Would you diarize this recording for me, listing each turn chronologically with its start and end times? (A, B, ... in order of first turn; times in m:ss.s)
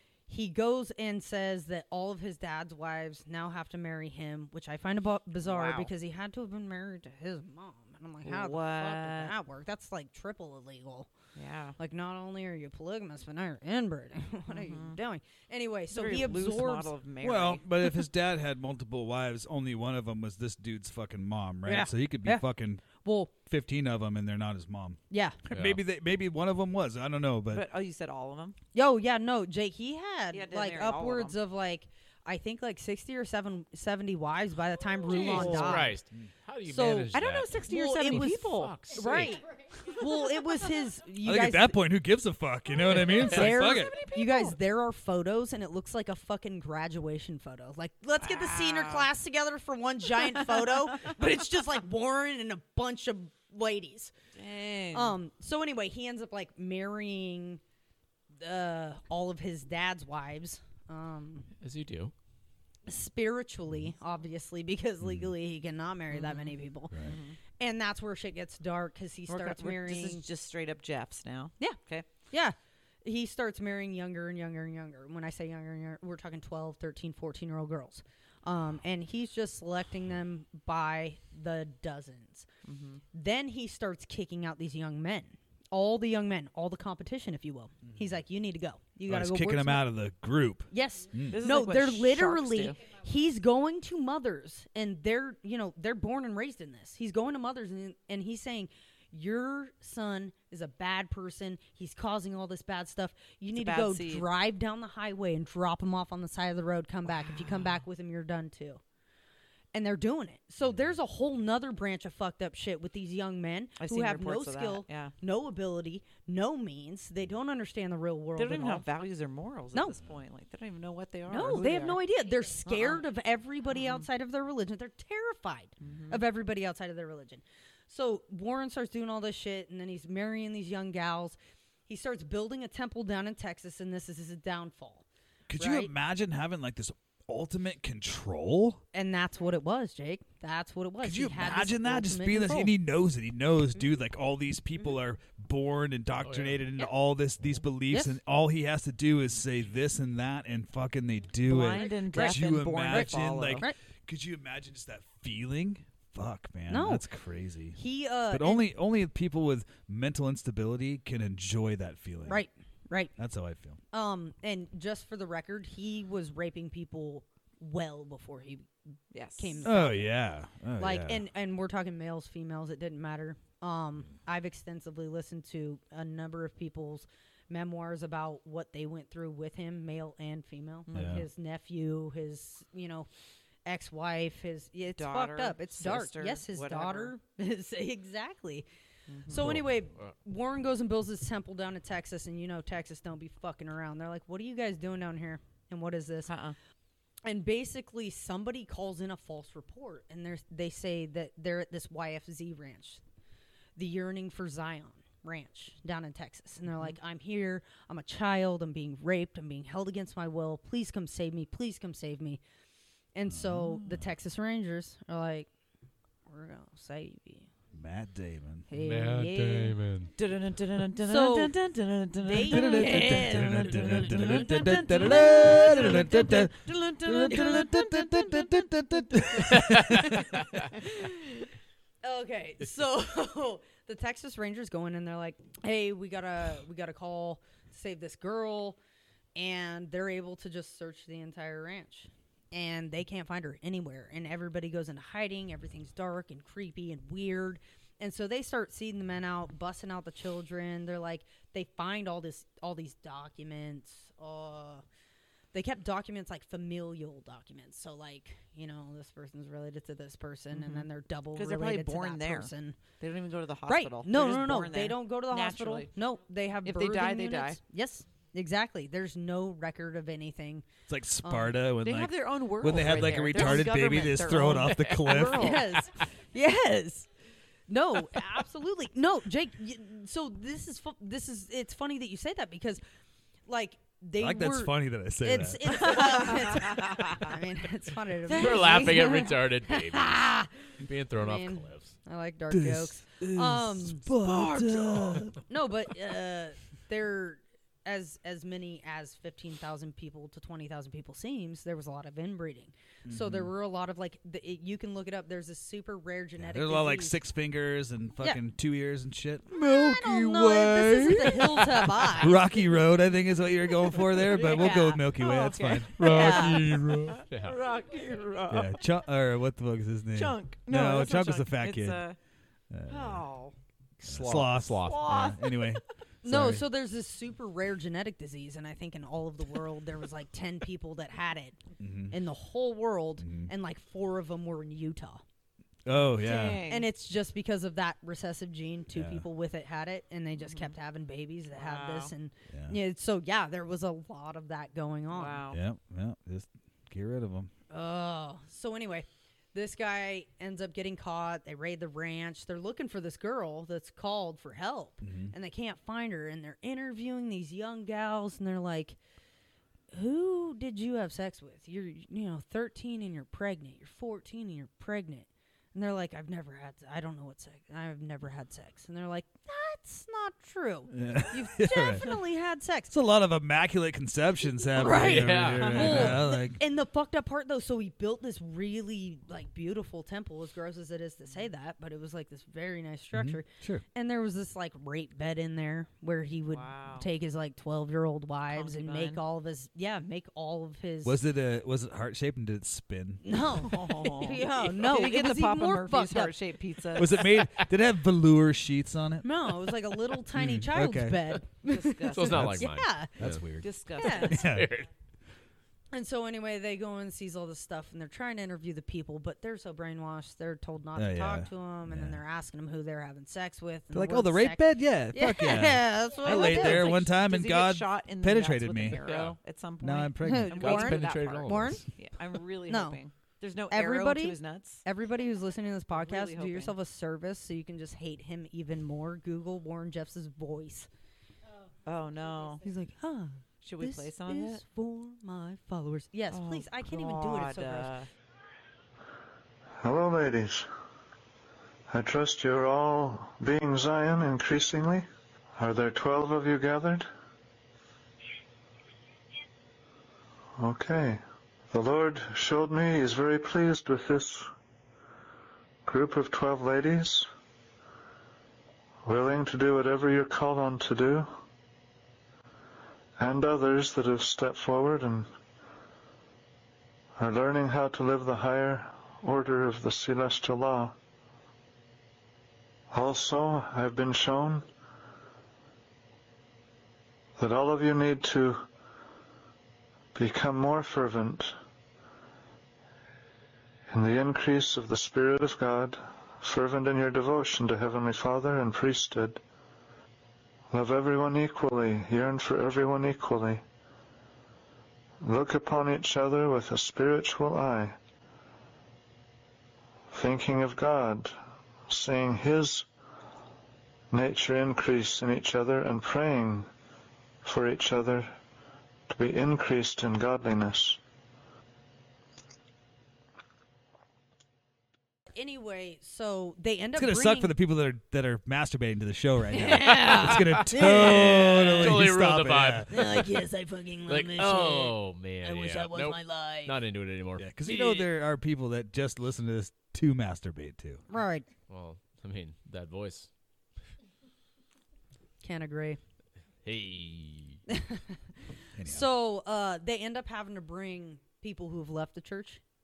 0:00.3-0:11.1 A
0:05.4-0:05.9 B
0:08.2-0:09.3 B
0:11.4-0:11.8 B
0:11.8-0:16.9 A
0:14.5-0:15.0 B
0:15.9-0:17.6 B
0:17.2-0:22.8 C
0:21.6-0:23.3 A
0:23.4-0:27.6 C
0:25.1-0:25.4 A
0:25.5-0:25.8 D
0:27.5-0:28.6 B
0:28.7-0:36.0 A
0:30.3-0:31.4 B
0:35.1-0:35.9 B
0:35.2-0:36.3 C
0:35.4-0:39.3 D
0:36.6-0:37.1 A
0:37.1-0:39.2 B
0:37.6-0:41.8 A
0:41.2-0:43.9 C
0:43.1-0:44.6 B
0:43.3-0:54.1 A
0:48.2-0:49.1 B
0:54.3-0:55.2 B
0:54.9-0:57.6 A
0:58.4-1:01.5 A
1:01.6-1:02.1 D
1:02.9-1:07.1 A
1:05.0-1:05.3 C
1:06.1-1:06.5 B
1:07.0-1:07.4 B
1:07.6-1:10.2 A
1:09.3-1:12.0 B
1:12.3-1:22.5 A
1:22.6-1:23.0 B
1:23.1-1:29.9 A
1:29.0-1:31.4 C
1:30.7-1:48.8 A
1:31.3-1:32.8 B
1:43.5-1:44.3 B
1:49.7-1:58.8 A
1:53.8-1:55.1 B
1:58.4-2:02.0 B
2:01.3-2:11.4 A
2:02.6-2:03.0 B
2:03.7-2:04.0 B
2:05.8-2:06.2 B
2:11.9-2:15.0 A
2:15.5-2:18.8 C
2:15.6-2:15.9 A
2:18.9-2:22.7 A
2:21.0-2:37.8 C
2:26.2-2:26.6 D
2:27.9-2:28.2 A
2:31.4-2:33.6 B
2:31.8-2:33.8 A
2:36.7-2:37.0 A
2:37.7-2:38.7 A
2:38.3-2:42.4 C
2:42.3-2:43.1 A
2:43.2-2:43.8 C
2:43.9-2:48.7 A
2:49.1-2:49.6 B
2:49.4-2:50.1 A
2:49.6-2:51.2 C
2:50.8-3:03.1 A
3:00.9-3:01.2 B
3:00.9-3:01.2 C
3:03.6-3:08.6 A
3:04.9-3:07.1 B
3:09.1-3:09.6 B
3:09.3-3:16.3 A
3:09.3-3:09.7 C
3:16.3-3:16.6 B
3:17.2-3:23.0 A
3:23.8-3:32.4 A
3:33.1-3:35.5 A
3:33.3-3:34.1 C
3:36.3-3:37.5 A
3:37.7-3:38.7 C
3:38.7-3:39.8 A
3:38.8-3:40.1 D
3:40.2-3:48.6 B
3:41.0-3:41.6 A
3:42.2-3:46.0 A
3:42.4-3:50.4 C
3:47.3-3:47.7 A
3:49.5-3:49.8 D
3:50.8-3:51.4 A
3:52.0-3:58.8 A
3:59.4-4:14.8 A
4:15.5-4:22.8 A
4:20.5-4:25.9 B
4:23.7-4:30.7 A
4:26.6-4:27.6 B
4:30.9-4:35.6 C
4:31.2-4:31.6 A
4:31.8-4:35.8 B
4:33.0-4:33.7 A
4:35.0-4:37.1 A
4:37.7-4:42.8 A
4:43.5-4:50.5 A
4:44.2-4:46.0 C
4:45.8-4:47.0 B
4:48.3-4:49.3 B
4:48.3-4:51.9 D
4:51.2-5:07.2 A
4:52.5-4:55.4 C
5:03.0-5:03.5 C
5:06.4-5:17.2 C
5:09.5-5:12.4 A
5:14.0-5:18.9 B
5:14.4-5:15.0 A
5:16.0-5:17.6 D
5:16.0-5:16.6 A
5:18.5-5:22.0 C
5:20.1-5:22.2 B
5:22.7-5:23.2 C
5:22.9-5:23.6 B
5:24.0-5:25.2 D
5:24.0-5:26.6 C
5:24.8-5:25.8 B
5:26.2-5:31.6 A
5:31.8-5:32.2 C
5:32.1-5:35.2 A
5:33.2-5:33.5 C
5:35.8-5:36.6 C
5:36.0-5:36.9 B
5:36.7-5:45.4 A
5:38.9-5:39.2 C
5:40.4-5:40.7 B
5:41.6-5:42.1 B
5:42.5-5:42.8 C
5:45.1-5:45.6 B
5:45.5-5:47.5 C
5:47.7-5:59.0 A
5:55.0-5:55.3 C
5:59.9-6:12.9 A
6:10.9-6:12.2 C
6:12.9-6:16.6 C
6:14.7-6:31.2 A
6:14.9-6:16.1 D
6:23.1-6:23.8 C
6:26.5-6:27.1 B
6:28.5-6:29.2 B
6:31.0-6:33.2 C
6:33.2-6:36.3 A
6:33.6-6:37.2 B
6:36.9-6:39.3 C
6:39.2-6:43.2 A
6:40.3-6:41.4 C
6:41.6-6:42.5 B
6:42.1-6:43.5 D
6:42.2-6:44.7 C
6:43.6-6:44.4 B
6:44.0-6:44.4 A
6:44.0-6:44.9 D
6:45.9-6:57.0 A
6:51.0-6:52.2 C
6:53.9-6:59.0 C
6:56.2-7:04.8 B
6:58.9-6:59.4 D
6:59.8-7:00.6 C
7:00.2-7:01.8 A
7:00.6-7:01.9 D
7:02.7-7:03.0 A
7:03.7-7:10.9 A
7:05.9-7:06.7 B
7:11.8-7:12.6 B
7:12.6-7:17.9 A
7:13.6-7:14.6 B
7:16.3-7:18.1 B
7:19.8-7:20.7 E
7:21.9-7:25.0 E
7:25.6-7:27.1 E
7:30.6-7:34.5 E
7:35.8-7:37.3 E
7:39.0-7:41.3 E
7:43.2-7:45.3 E
7:47.2-7:50.9 E
7:52.9-7:54.6 E
7:57.4-7:58.6 E
8:00.1-8:01.6 E
8:03.9-8:09.4 E
8:10.7-8:13.6 E
8:15.2-8:18.0 E
8:20.1-8:21.3 E
8:21.9-8:22.9 E
8:24.1-8:26.7 E
8:27.4-8:28.3 E
8:29.1-8:31.0 E
8:35.3-8:37.5 A
8:37.0-8:43.1 C
8:39.5-8:42.1 A
8:39.6-8:43.4 D
8:42.9-8:46.8 A
8:44.1-8:47.5 D
8:47.4-8:51.0 C
8:51.1-8:51.5 A
8:51.7-8:53.3 D
8:55.4-8:56.0 A
8:56.6-8:57.6 D
8:57.7-8:58.2 A
8:58.8-8:59.1 C
8:58.8-9:02.6 A